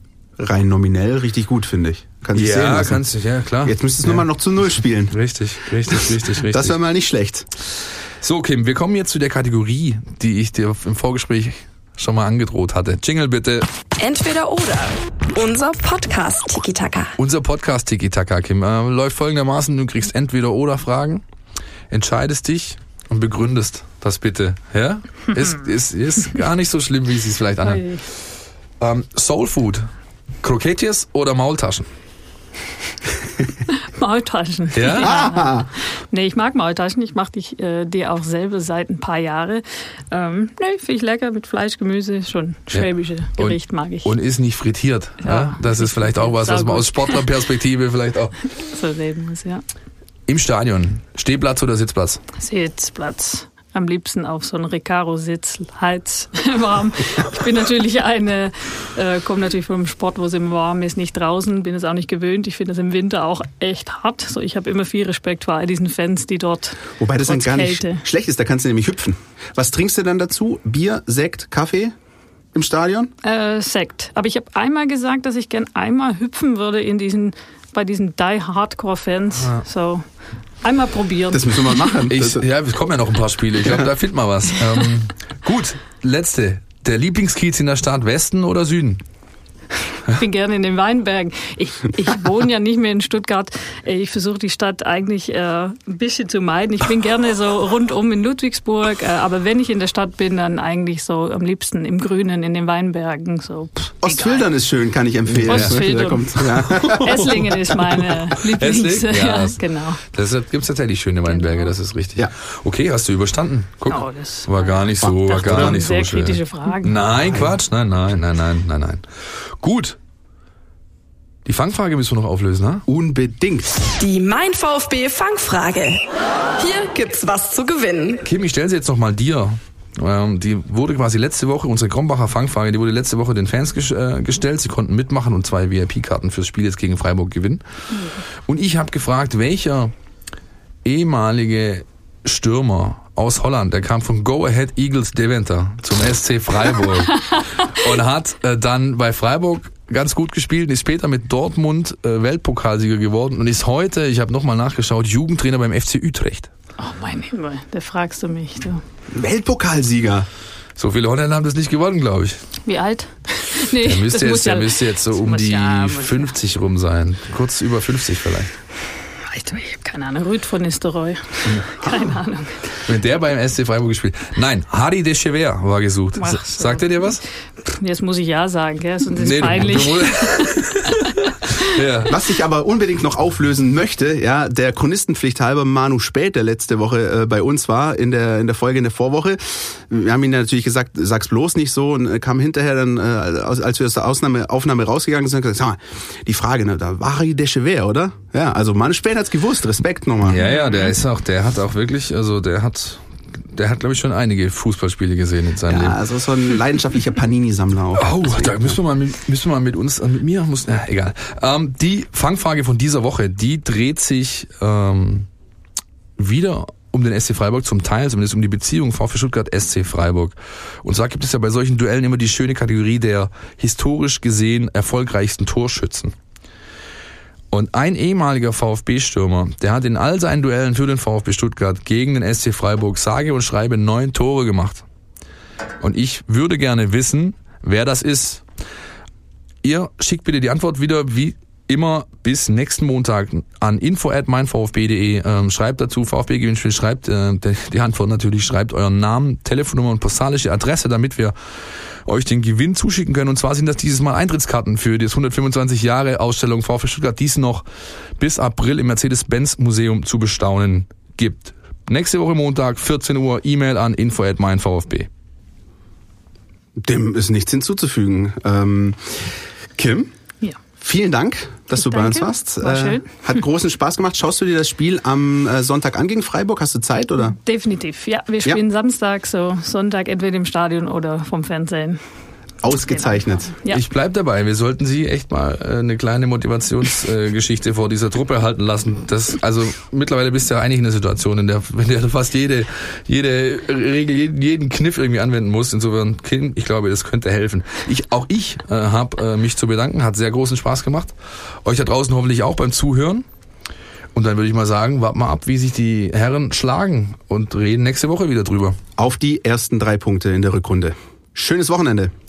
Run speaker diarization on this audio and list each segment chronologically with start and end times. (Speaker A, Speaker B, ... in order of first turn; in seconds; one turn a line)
Speaker A: 0.4-3.0
Speaker B: 2.4-4.2
Speaker A: 3.6-5.2
Speaker B: 5.1-6.8
Speaker A: 5.9-7.5
Speaker B: 8.2-13.7
Speaker C: 14.0-17.1
Speaker B: 17.2-21.2
Speaker B: 21.9-27.9
Speaker D: 27.6-28.0
Speaker B: 28.8-29.9
Speaker B: 30.4-31.9
Speaker D: 33.8-44.1
Speaker B: 34.7-35.1
Speaker A: 35.0-35.7
Speaker B: 42.7-48.4
Speaker D: 45.2-47.2
Speaker D: 48.6-49.6
Speaker B: 50.3-52.2
Speaker D: 52.4-68.0
Speaker A: 67.0-71.9
Speaker A: 72.5-73.1
Speaker D: 73.2-80.1
Speaker D: 80.6-81.9
Speaker A: 81.3-82.5
Speaker B: 82.1-89.0
Speaker D: 90.1-104.5
Speaker A: 104.0-107.5
Speaker B: 105.4-105.8
Speaker D: 105.5-110.0
Speaker B: 106.5-107.0
Speaker B: 108.5-120.0
Speaker D: 111.2-111.7
Speaker D: 113.9-117.0
Speaker A: 115.1-115.8
Speaker B: 121.5-122.9
Speaker A: 122.9-123.8
Speaker C: 124.0-126.0
Speaker C: 126.6-128.2
Speaker B: 128.2-139.9
Speaker B: 140.8-156.5
Speaker D: 156.8-158.8
Speaker A: 159.1-160.3
Speaker B: 160.8-162.4
Speaker D: 162.7-166.3
Speaker B: 163.8-168.5
Speaker D: 169.3-172.8
Speaker B: 172.8-177.2
Speaker D: 176.2-181.7
Speaker B: 179.2-182.2
Speaker A: 182.1-200.4
Speaker B: 200.2-206.0
Speaker D: 200.3-200.9
Speaker A: 205.7-208.8
Speaker B: 207.9-215.3
Speaker B: 216.2-226.1
Speaker B: 227.5-234.8
Speaker B: 235.8-238.4
Speaker B: 239.6-251.3
Speaker B: 252.1-257.6
Speaker B: 258.2-265.1
Speaker A: 266.8-270.1
Speaker A: 270.8-277.4
Speaker D: 271.8-273.4
Speaker D: 277.3-282.0
Speaker A: 282.6-283.5
Speaker D: 282.7-283.8
Speaker B: 283.7-303.2
Speaker B: 304.1-308.8
Speaker A: 309.0-312.1